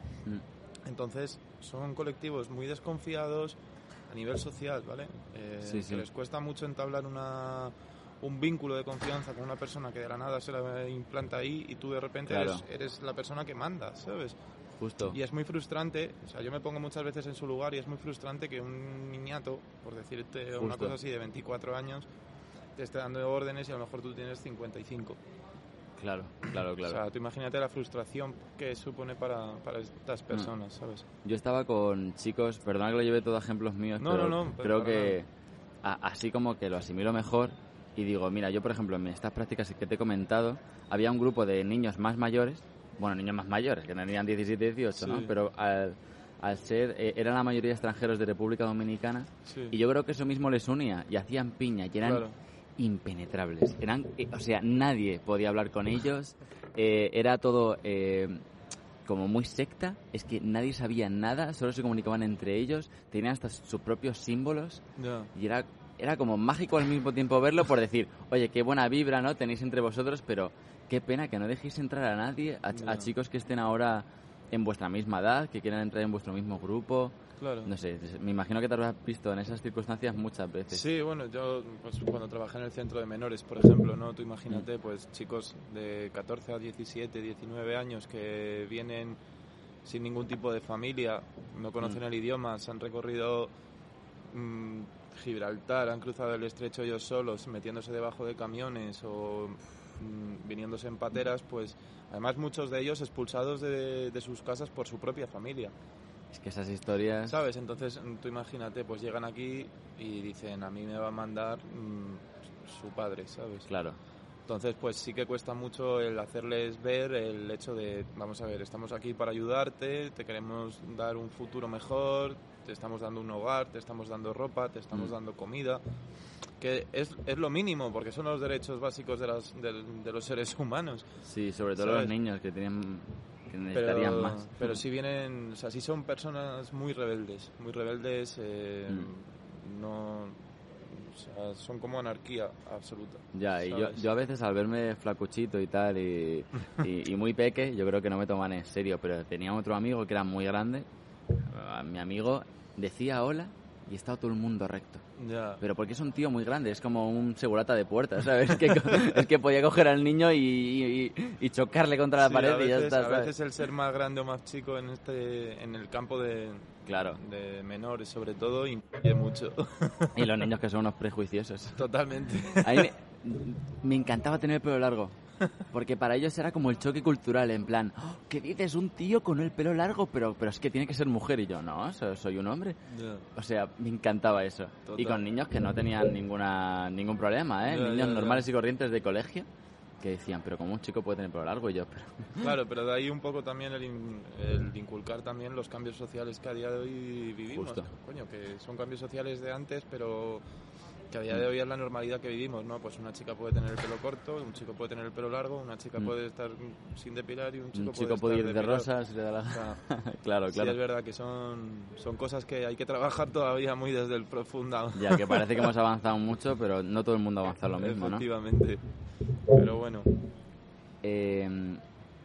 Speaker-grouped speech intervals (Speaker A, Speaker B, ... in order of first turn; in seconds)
Speaker A: 0.8-14.4, 15.1-22.1, 22.8-25.2, 26.8-31.1, 34.0-35.2, 45.0-45.3, 49.5-49.7, 52.0-52.4, 65.0-65.3, 72.7-73.1, 77.4-77.7, 80.7-89.2, 89.8-93.5, 94.3-105.7, 107.3-113.7, 114.5-125.8, 126.6-131.0, 131.8-132.1, 133.7-144.0, 155.2-155.6, 162.2-170.2, 171.8-172.9, 182.9-183.2, 184.8-185.2, 187.7-188.4, 192.4-200.4, 201.1-208.9, 209.5-209.8, 210.5-215.7, 217.8-218.8, 219.5-220.1
Speaker B: 5.6-6.0, 12.3-12.6, 14.8-15.2, 20.6-20.9, 26.0-27.0, 31.2-35.3, 35.8-52.2, 52.8-58.5, 59.0-80.9, 106.3-107.4, 113.7-114.0, 131.2-134.7, 143.3-155.0, 155.6-163.3, 166.8-167.2, 170.1-171.9, 172.6-175.2, 175.7-182.8, 183.3-189.5, 190.0-192.5, 197.5-197.9, 207.7-210.8, 214.9-218.2, 221.0-221.8